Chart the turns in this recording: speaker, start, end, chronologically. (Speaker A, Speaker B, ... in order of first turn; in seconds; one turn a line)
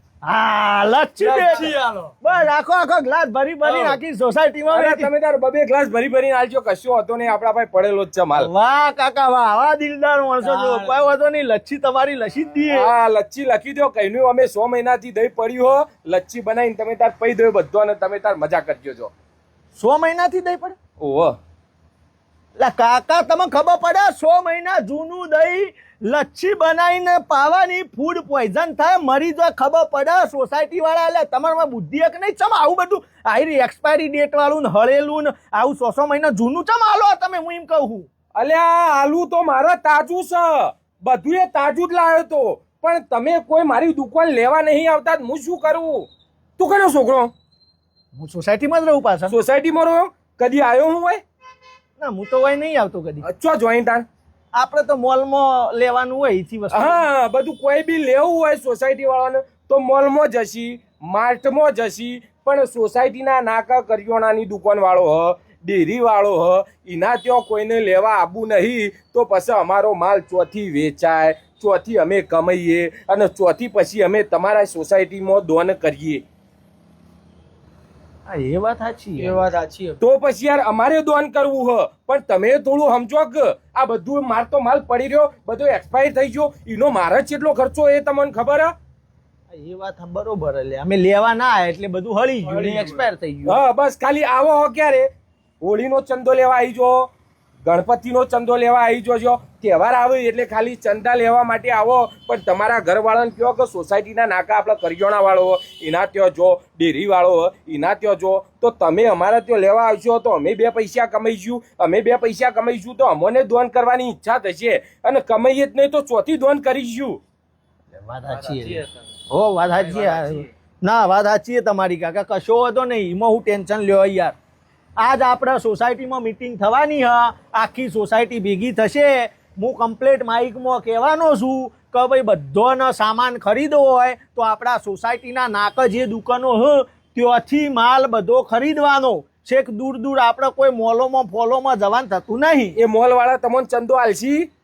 Speaker A: 0.2-5.1
Speaker B: 1.2-2.2
Speaker C: 3.6-4.0
Speaker C: 4.7-8.5
Speaker A: 8.4-12.9
Speaker B: 10.4-11.0
Speaker C: 12.7-19.1
Speaker A: 19.8-20.8
Speaker C: 21.0-21.4
Speaker A: 22.6-38.1
Speaker C: 38.3-47.3
Speaker A: 48.1-49.3
Speaker C: 49.3-51.2
Speaker A: 52.0-53.3
Speaker C: 53.2-54.1
Speaker A: 54.5-57.0
Speaker C: 56.7-76.2
Speaker A: 78.3-79.4
Speaker B: 79.2-80.0
Speaker C: 80.0-88.7
Speaker A: 89.5-93.6
Speaker B: 92.6-93.1
Speaker C: 93.5-95.1
Speaker C: 95.6-97.1
Speaker C: 97.6-117.2
Speaker A: 118.0-124.3
Speaker A: 125.0-142.8
Speaker C: 142.8-144.5